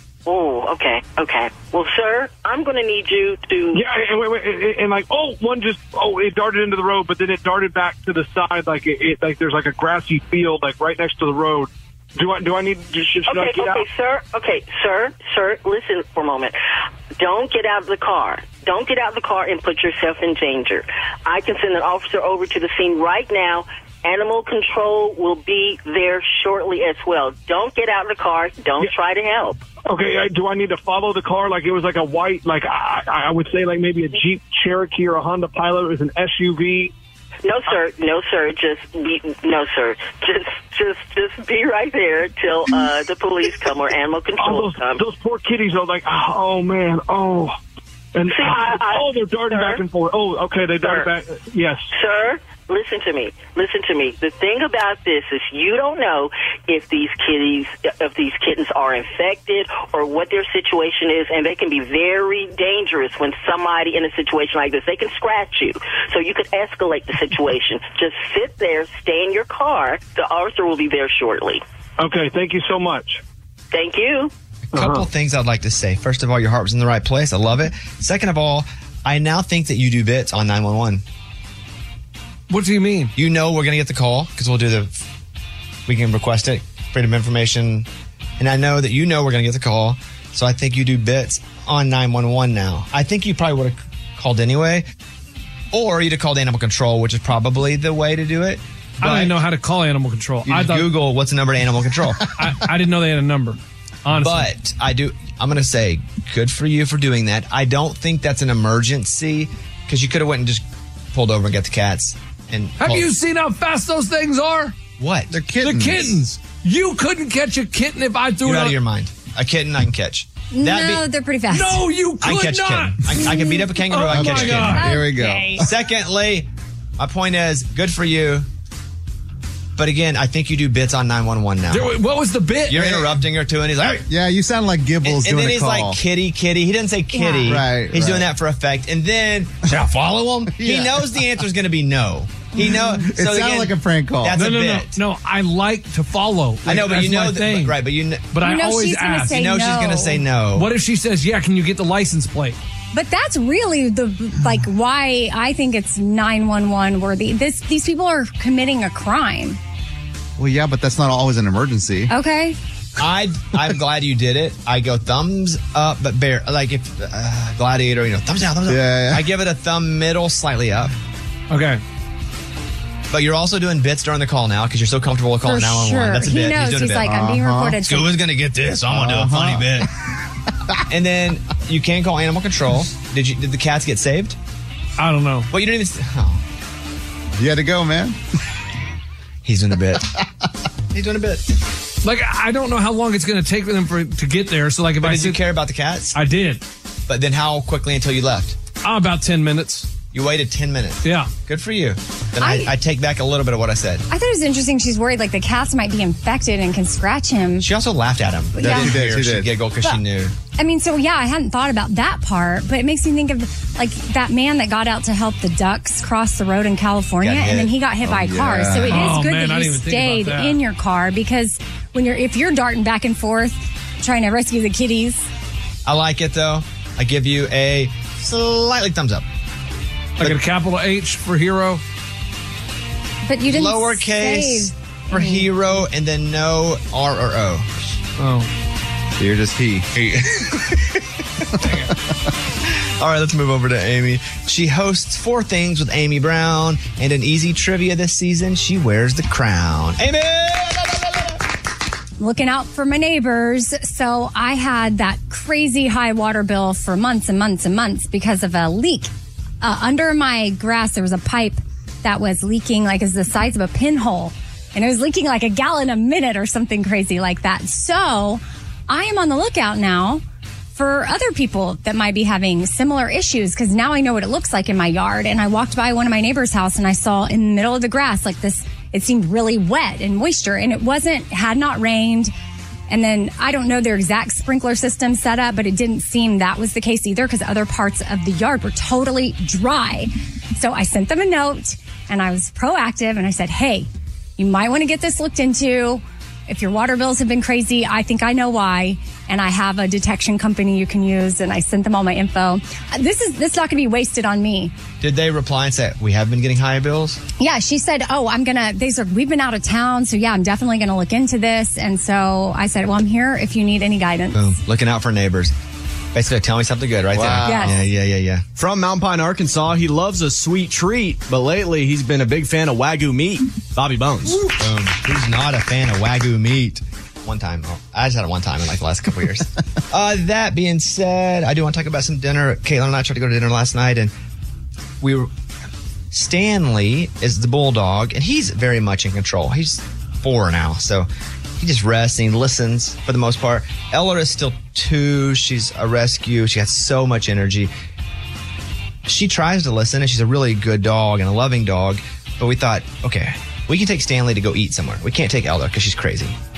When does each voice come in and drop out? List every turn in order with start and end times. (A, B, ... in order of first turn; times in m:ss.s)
0:00.3-0:03.8 A
0:03.7-0:13.9 B
0:13.3-0:16.6 A
0:17.2-0:29.6 A
0:29.8-0:36.9 B
0:37.4-0:45.0 A
0:44.4-0:47.6 B
0:48.1-0:51.9 B
0:48.3-0:49.8 A
0:50.8-0:51.1 A
0:51.9-1:11.6 A
1:12.0-1:13.2 B
1:13.7-1:14.3 A
1:14.7-1:21.0 C
1:14.7-1:15.1 B
1:22.5-1:23.1 D
1:23.2-1:25.0 C
1:25.9-1:27.9 C
1:28.4-1:34.8 C
1:35.7-1:39.4 C
1:39.0-1:40.9 D
1:40.5-1:42.3 C
1:42.4-1:44.5 D
1:44.2-1:53.1 C
1:52.8-1:54.8 D
1:55.0-1:55.4 C
1:55.3-1:56.2 E
1:55.6-1:58.8 D
1:58.4-2:01.0 C
2:00.5-2:01.9 F
2:01.5-2:04.9 D
2:02.2-2:04.9 C
2:04.1-2:05.7 E
2:04.7-2:05.6 F
2:05.6-2:08.5 C
2:09.8-2:11.9 C
2:11.7-2:12.9 D
2:12.7-2:14.1 C
2:14.1-2:16.0 E
2:15.0-2:25.0 C
2:17.1-2:17.6 F
2:17.4-2:18.3 E
2:20.6-2:21.2 E
2:22.6-2:23.0 F
2:22.6-2:24.4 E
2:24.3-2:27.8 D
2:26.6-2:28.3 C
2:28.3-2:29.4 D
2:28.4-2:30.3 F
2:29.3-2:30.7 C
2:30.5-2:32.6 D
2:32.9-2:39.6 F
2:40.4-2:42.1 E
2:42.1-2:42.6 F
2:43.0-2:50.9 C
2:48.7-2:49.3 E
2:51.5-2:51.8 D
2:53.1-2:57.1 C
2:55.4-2:58.2 F
2:57.0-2:57.8 E
2:57.8-2:59.9 C
2:58.9-2:59.9 E
3:00.9-3:04.4 C
3:05.0-3:05.5 D
3:05.5-3:06.4 C
3:07.4-3:08.2 E
3:09.4-3:10.1 C
3:10.9-3:11.4 C
3:12.0-3:15.4 D
3:15.0-3:16.2 C
3:16.1-3:16.6 D
3:17.1-3:18.6 C
3:18.8-3:19.9 D
3:20.1-3:24.0 C
3:21.0-3:21.3 D
3:22.4-3:22.7 F
3:24.1-3:27.7 F
3:27.6-3:30.4 C
3:28.6-3:29.0 F
3:28.6-3:29.5 E
3:30.6-3:45.3 F
3:37.2-3:37.7 C
3:38.0-3:39.1 E
3:38.8-3:40.6 D
3:45.9-3:49.2 C
3:50.2-3:51.8 D
3:53.3-3:55.5 F
3:53.5-3:57.7 C
3:58.2-3:58.5 D
3:59.2-3:59.9 E
3:59.9-4:01.0 C
4:01.6-4:01.9 D
4:02.8-4:11.4 C
4:12.2-4:19.1 F
4:19.6-4:30.2 F
4:30.8-4:42.3 F
4:42.9-5:04.7 F
5:05.0-5:07.2 C
5:07.4-5:14.4 F
5:14.3-5:15.5 C
5:16.1-5:18.5 C
5:17.1-5:17.7 E
5:17.4-5:17.8 F
5:18.6-5:24.4 G
5:24.3-5:34.1 C
5:35.0-5:35.3 C
5:36.1-5:41.1 C
5:41.6-5:47.7 C
5:49.1-5:56.4 C